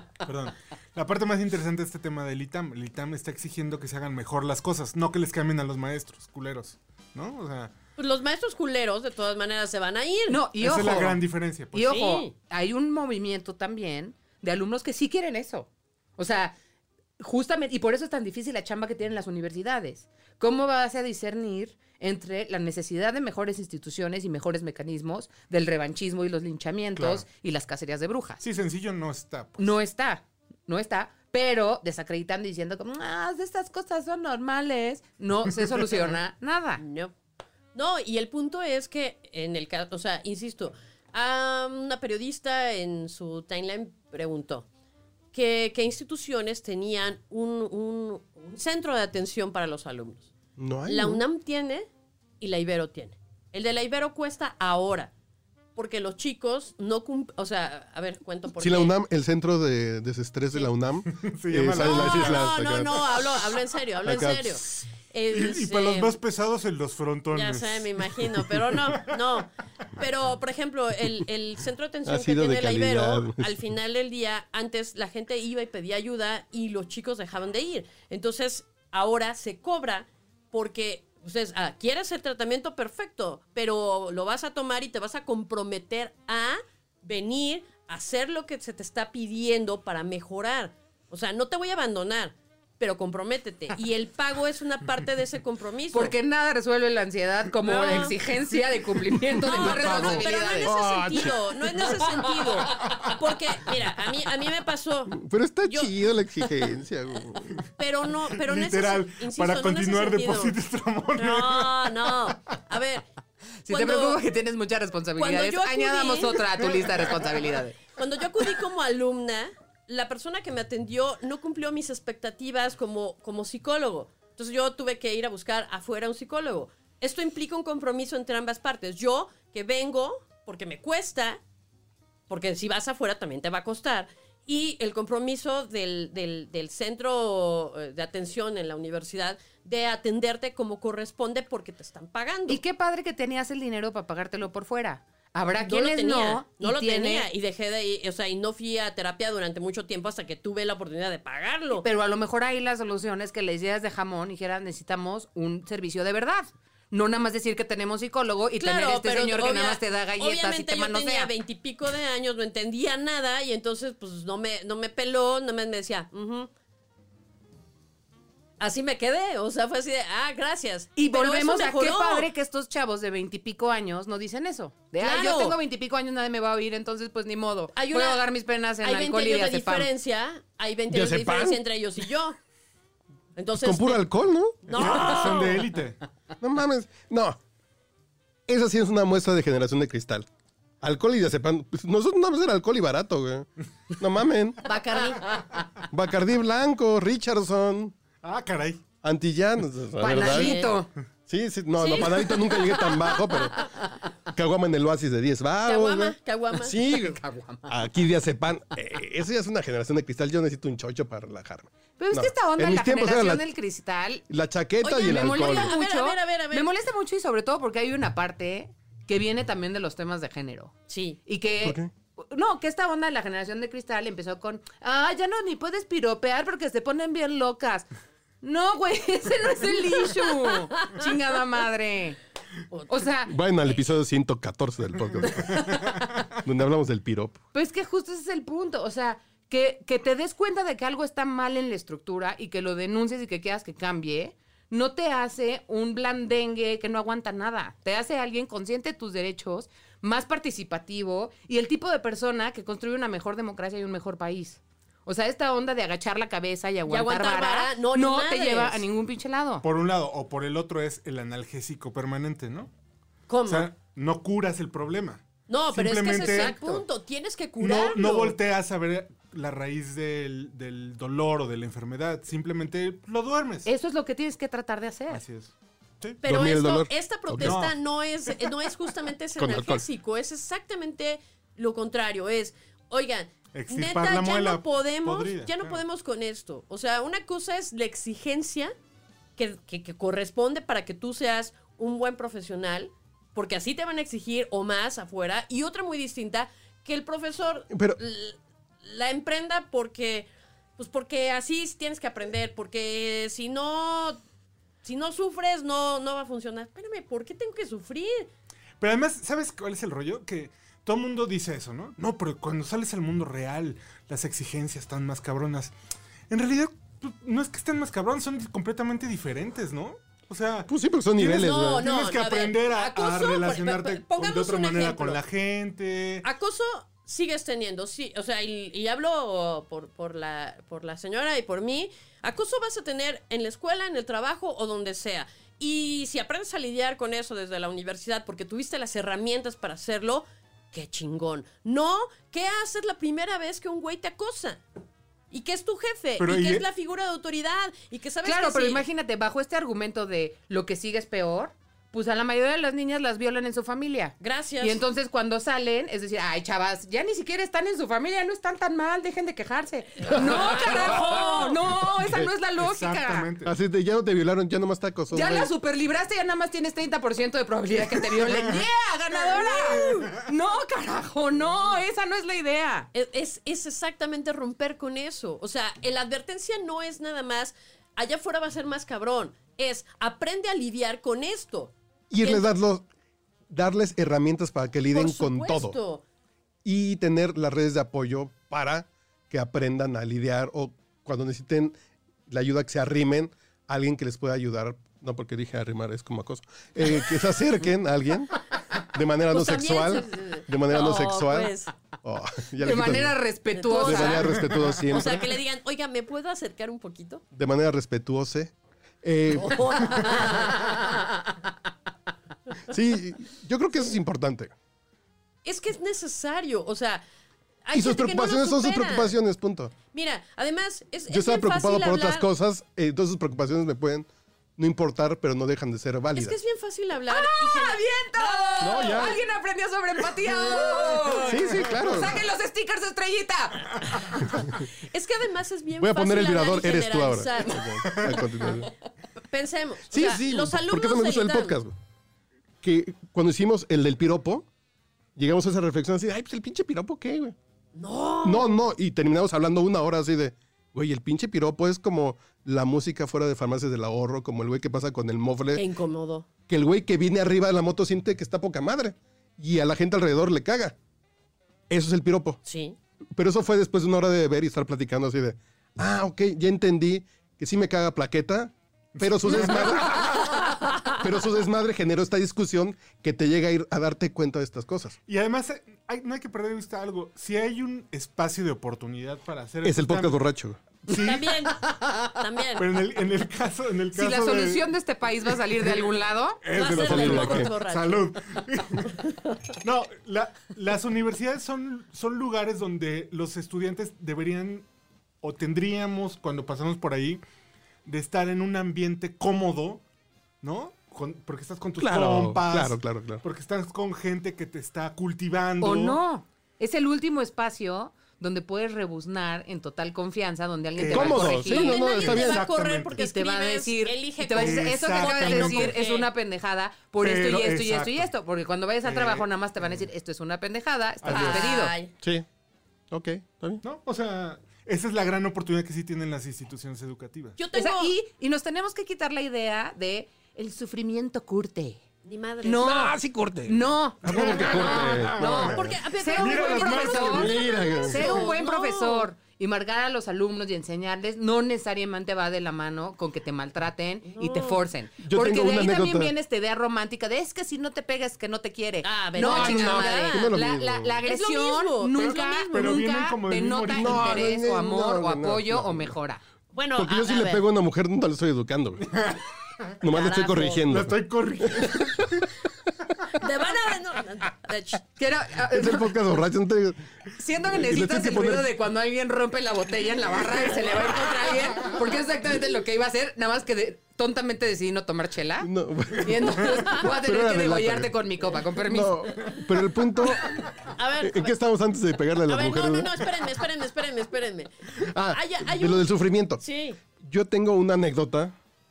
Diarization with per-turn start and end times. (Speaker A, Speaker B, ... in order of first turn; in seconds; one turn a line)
Speaker A: 0.2-7.7
Speaker B: 8.0-10.4
Speaker C: 10.3-16.5
Speaker A: 10.6-11.9
Speaker B: 11.8-12.3
Speaker C: 17.2-28.4
Speaker A: 26.9-27.2
Speaker A: 28.4-29.8
Speaker C: 29.6-36.8
Speaker A: 35.7-36.0
Speaker B: 36.8-37.1
Speaker B: 37.7-44.6
Speaker B: 45.3-50.3
Speaker D: 50.6-51.2
Speaker B: 50.9-51.9
Speaker B: 52.4-55.1
Speaker B: 55.8-58.9
Speaker D: 58.6-63.1
Speaker A: 61.1-62.5
Speaker B: 61.8-66.1
Speaker D: 64.0-64.6
Speaker A: 65.3-69.1
Speaker B: 67.3-96.1
Speaker D: 72.0-73.5
Speaker C: 95.9-100.8
Speaker B: 97.6-98.1
Speaker D: 99.4-101.4
Speaker B: 99.4-105.9
Speaker C: 102.3-102.9
Speaker D: 105.1-107.4
Speaker B: 107.8-110.6
Speaker A: 108.3-112.3
Speaker B: 111.2-113.0
Speaker C: 113.6-117.8
Speaker B: 113.7-114.2
Speaker B: 115.2-116.4
Speaker A: 116.6-117.3
Speaker B: 117.9-131.4
Speaker B: 132.3-142.6
Speaker C: 142.5-147.3
Speaker B: 145.6-151.8
Speaker C: 151.8-161.3
Speaker B: 158.6-166.5
Speaker B: 168.6-172.3
Speaker C: 170.9-179.9
Speaker B: 175.0-175.6
Speaker B: 177.7-178.2
Speaker B: 178.8-182.4
Speaker D: 180.9-181.6
Speaker B: 183.3-184.1
Speaker D: 183.6-185.2
Speaker B: 184.7-185.6
Speaker A: 184.7-186.0
Speaker D: 186.4-187.4
Speaker D: 188.5-190.2
Speaker D: 190.8-194.7
Speaker B: 194.6-195.2
Speaker D: 195.9-197.9
Speaker A: 198.2-198.8
Speaker D: 199.0-203.7
Speaker C: 200.0-200.9
Speaker B: 200.2-200.8
Speaker B: 201.8-203.6
Speaker D: 204.3-213.4
Speaker B: 205.6-206.8
Speaker C: 206.9-207.7
Speaker C: 212.0-214.2
Speaker D: 214.3-215.7
Speaker B: 214.8-216.7
Speaker C: 215.0-220.7
Speaker B: 220.9-221.2
Speaker C: 221.2-227.9
Speaker D: 221.6-221.9
Speaker C: 228.4-232.2
Speaker C: 232.9-233.3
Speaker D: 233.2-235.8
Speaker C: 235.5-236.0
Speaker D: 236.3-237.4
Speaker C: 237.5-259.6
Speaker B: 256.9-258.8
Speaker A: 259.6-262.7
Speaker B: 263.3-263.7
Speaker A: 263.5-266.8
Speaker B: 265.5-268.4
Speaker A: 267.6-273.7
Speaker C: 273.6-275.2
Speaker A: 275.1-276.2
Speaker D: 276.2-277.6
Speaker B: 276.2-288.7
Speaker A: 277.4-277.8
Speaker D: 279.4-279.8
Speaker A: 283.5-285.8
Speaker B: 289.4-304.2
Speaker D: 297.7-298.0
Speaker B: 304.8-308.3
Speaker A: 308.8-315.7
Speaker A: 316.3-326.2
Speaker D: 320.7-321.9
Speaker B: 321.2-325.2
Speaker B: 326.2-344.6
Speaker B: 345.3-348.8
Speaker A: 346.2-346.6
Speaker C: 348.2-363.3
Speaker B: 354.2-354.8
Speaker B: 360.1-361.6
Speaker D: 362.0-362.3
Speaker A: 362.6-363.5
Speaker D: 363.4-365.5
Speaker C: 365.1-372.9
Speaker B: 369.3-370.1
Speaker A: 369.6-370.1
Speaker B: 372.9-382.4
Speaker D: 382.1-382.8
Speaker D: 383.5-385.8
Speaker B: 384.9-386.0
Speaker D: 386.6-391.7
Speaker D: 392.3-401.5
Speaker B: 399.3-401.7
Speaker D: 402.0-403.2
Speaker C: 402.6-404.4
Speaker B: 403.5-407.2
Speaker D: 403.7-405.2
Speaker A: 404.4-404.9
Speaker D: 407.3-410.2
Speaker B: 409.4-410.9
Speaker D: 412.7-414.5
Speaker B: 415.4-417.0
Speaker B: 417.6-419.1
Speaker D: 417.7-419.7
Speaker B: 419.9-422.3
Speaker D: 421.1-426.4
Speaker B: 426.1-429.2
Speaker C: 427.1-434.0
Speaker D: 428.6-429.2
Speaker D: 431.2-432.2
Speaker B: 434.8-438.0
Speaker D: 435.8-438.7
Speaker A: 437.8-438.2
Speaker B: 439.2-441.6
Speaker D: 439.9-441.7
Speaker D: 442.6-444.5
Speaker D: 445.1-447.3
Speaker B: 447.7-448.6
Speaker D: 448.2-455.6
Speaker B: 455.5-456.2
Speaker D: 456.5-460.8
Speaker D: 461.7-462.4
Speaker B: 462.4-462.8
Speaker D: 463.1-475.0
Speaker A: 469.0-470.5
Speaker B: 470.3-471.0
Speaker A: 475.1-480.2
Speaker D: 479.6-480.6
Speaker A: 480.9-481.4
Speaker B: 480.9-482.7
Speaker C: 481.8-482.1
Speaker A: 482.6-484.7
Speaker C: 483.9-486.4
Speaker A: 486.4-489.0
Speaker B: 486.5-488.1
Speaker D: 486.6-487.5
Speaker A: 489.6-494.7
Speaker A: 495.2-497.2
Speaker A: 497.9-499.8
Speaker A: 500.4-506.0
Speaker D: 501.8-503.2
Speaker C: 505.6-511.8
Speaker A: 510.8-513.0
Speaker D: 510.9-512.4
Speaker B: 511.4-516.1
Speaker C: 513.0-521.7
Speaker A: 514.4-515.8
Speaker A: 517.0-518.1
Speaker A: 518.8-519.8
Speaker A: 521.0-521.5
Speaker B: 521.1-521.9
Speaker D: 522.0-522.2
Speaker D: 522.9-523.6
Speaker A: 523.6-527.4
Speaker B: 527.4-527.9
Speaker C: 527.5-531.8
Speaker B: 532.0-532.9
Speaker C: 532.4-556.2
Speaker D: 532.6-535.7
Speaker A: 534.0-535.6
Speaker B: 535.5-539.1
Speaker A: 536.1-537.5
Speaker D: 537.1-538.2
Speaker B: 544.1-544.6
Speaker D: 545.0-546.1
Speaker B: 548.8-550.3
Speaker D: 549.2-551.0
Speaker B: 551.0-552.8
Speaker A: 552.5-554.4
Speaker D: 553.7-555.9
Speaker B: 556.5-557.4
Speaker D: 556.8-558.9
Speaker A: 558.9-559.2
Speaker D: 559.8-561.0
Speaker B: 559.9-560.6
Speaker A: 560.6-562.2
Speaker B: 563.1-564.8
Speaker C: 565.0-565.9
Speaker D: 565.5-566.8
Speaker C: 567.2-579.3
Speaker D: 567.5-568.5
Speaker D: 575.4-577.9
Speaker B: 576.5-576.8
Speaker D: 578.6-580.4
Speaker B: 580.7-581.3
Speaker D: 581.0-583.2
Speaker B: 582.3-584.5
Speaker D: 584.8-586.4
Speaker B: 585.1-585.9
Speaker B: 586.4-586.8
Speaker D: 587.0-588.4